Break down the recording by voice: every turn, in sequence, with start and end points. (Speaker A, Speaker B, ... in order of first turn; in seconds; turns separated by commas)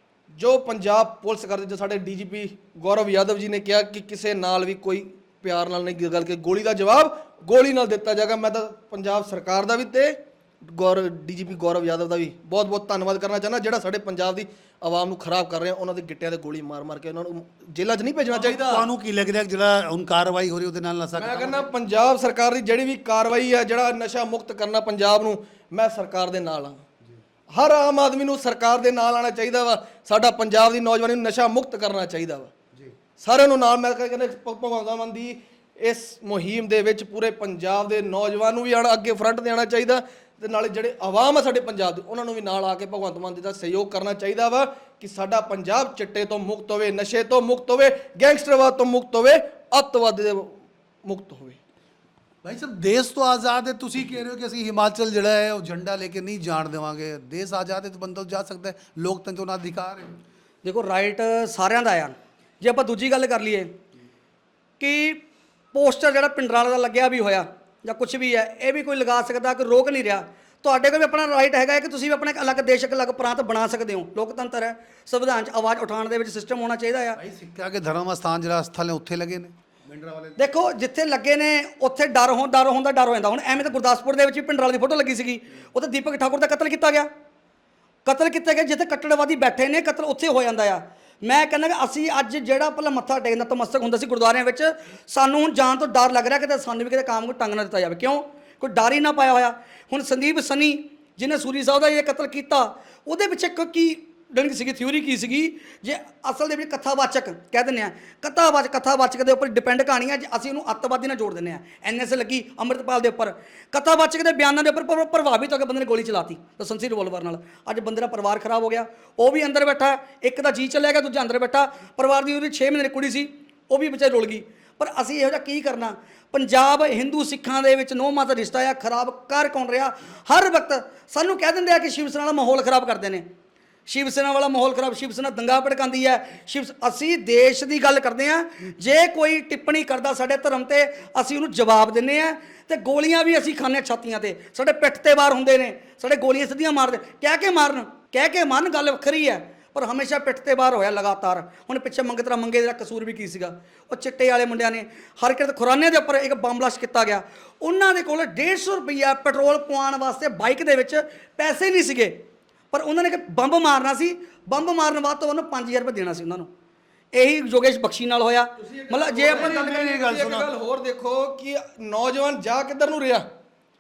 Speaker A: 0.4-18.9, Speaker B: 18.3-21.7, Speaker A: 21.2-26.8, Speaker A: 27.6-32.5, Speaker A: 33.2-51.6, Speaker B: 52.4-60.2, Speaker C: 60.6-63.7, Speaker C: 64.8-65.2, Speaker C: 65.7-77.2, Speaker B: 77.2-80.6, Speaker C: 80.4-87.1, Speaker C: 88.0-133.2, Speaker C: 133.9-162.2, Speaker C: 162.7-166.5, Speaker C: 167.1-169.5, Speaker A: 168.6-173.3, Speaker B: 169.3-170.5